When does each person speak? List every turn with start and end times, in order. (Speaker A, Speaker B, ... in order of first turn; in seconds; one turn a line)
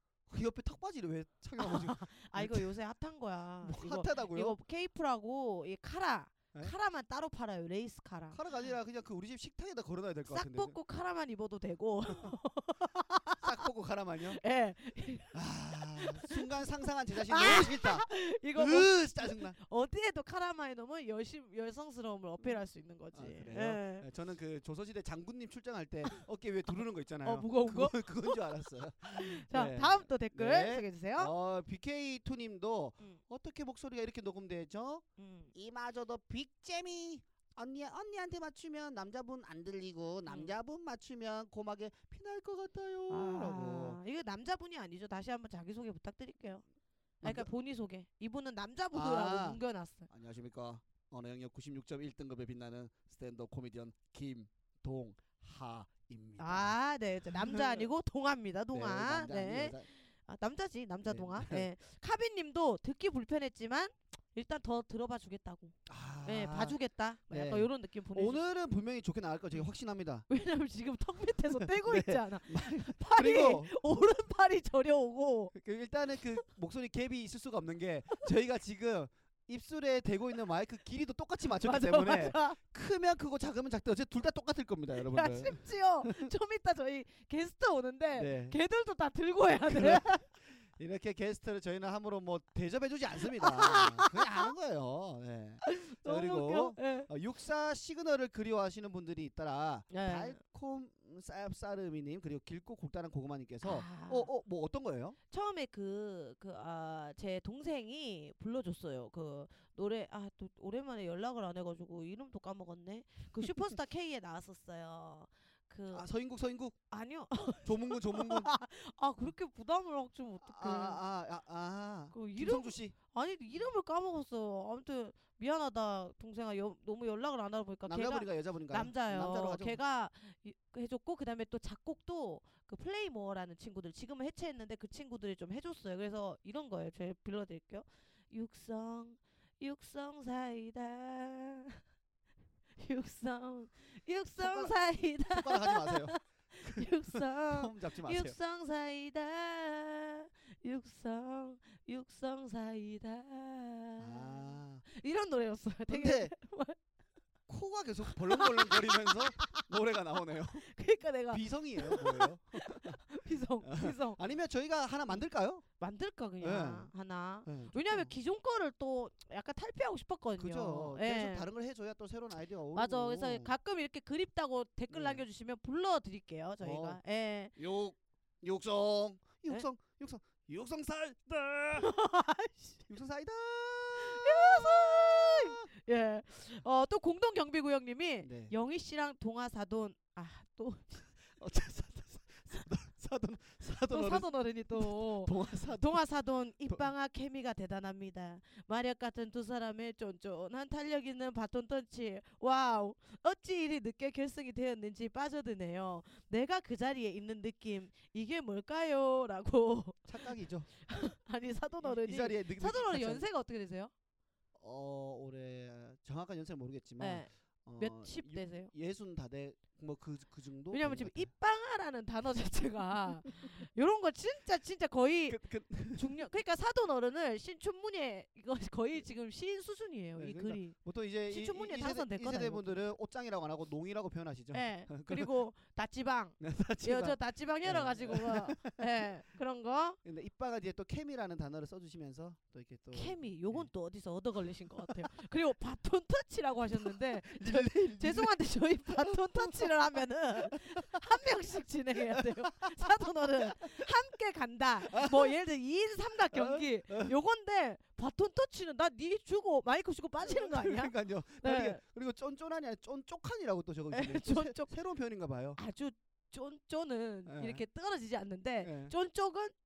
Speaker A: 0.3-2.8
Speaker B: 1.6-8.4
Speaker A: 3.6-4.6
Speaker A: 8.3-10.8
Speaker B: 10.3-13.5
Speaker A: 12.1-12.4
Speaker A: 13.4-14.4
Speaker B: 14.3-15.4
Speaker A: 15.3-19.6
Speaker B: 16.0-16.5
Speaker B: 17.2-24.1
Speaker A: 23.1-44.0
Speaker B: 27.2-28.5
Speaker B: 29.1-31.3
Speaker B: 35.2-35.5
Speaker B: 40.3-40.5
Speaker B: 43.1-46.6
Speaker B: 47.2-50.1
Speaker A: 47.2-47.5
Speaker A: 48.9-56.8
Speaker B: 56.4-68.4
Speaker A: 57.3-57.9
Speaker A: 58.7-59.9
Speaker A: 61.1-61.7
Speaker A: 65.9-66.8
Speaker A: 67.3-70.3
Speaker B: 70.3-75.5
Speaker A: 71.5-73.7
Speaker A: 75.5-86.3
Speaker B: 81.5-82.6
Speaker B: 85.0-90.3
Speaker A: 88.2-88.6
Speaker A: 89.6-105.2
Speaker B: 93.2-94.5
Speaker B: 95.6-97.1
Speaker B: 99.9-100.4
Speaker B: 103.6-104.3
Speaker B: 105.3-116.1
Speaker A: 115.9-116.8
Speaker B: 116.9-121.0
Speaker A: 117.6-118.5
Speaker A: 120.4-123.0
Speaker B: 122.1-141.8
Speaker A: 127.9-129.8
Speaker B: 142.8-156.8
Speaker A: 144.4-148.4
Speaker A: 154.0-154.8
Speaker A: 155.9-156.3
Speaker A: 157.5-160.7
Speaker B: 158.1-159.7
Speaker B: 160.6-164.2
Speaker A: 161.3-163.0
Speaker A: 163.6-165.6
Speaker B: 165.8-171.5
Speaker A: 166.4-166.9
Speaker A: 167.5-168.1
Speaker A: 170.4-173.5
Speaker B: 172.8-177.6
Speaker A: 174.9-175.2
Speaker A: 176.6-177.0
Speaker A: 177.6-181.9
Speaker B: 181.8-182.9
Speaker A: 182.9-185.6
Speaker B: 184.0-191.1
Speaker A: 188.2-188.5
Speaker A: 191.4-196.0
Speaker B: 193.9-213.9
Speaker A: 210.1-210.7
Speaker A: 211.8-213.2
Speaker A: 214.6-221.3
Speaker B: 217.0-218.7
Speaker B: 220.7-225.4
Speaker A: 225.3-226.2
Speaker B: 225.9-230.8
Speaker A: 230.2-235.3
Speaker B: 231.3-232.8
Speaker B: 234.5-240.0
Speaker A: 236.4-238.8
Speaker A: 240.1-243.7
Speaker B: 242.9-261.8
Speaker A: 244.7-245.1
Speaker A: 246.8-248.3
Speaker A: 248.9-249.7
Speaker A: 250.4-250.9
Speaker A: 252.0-252.9
Speaker A: 253.5-253.9
Speaker A: 254.9-255.3
Speaker A: 256.3-257.1
Speaker A: 260.2-265.6
Speaker B: 263.9-264.7
Speaker B: 265.6-269.6
Speaker A: 267.3-267.6
Speaker A: 268.6-268.9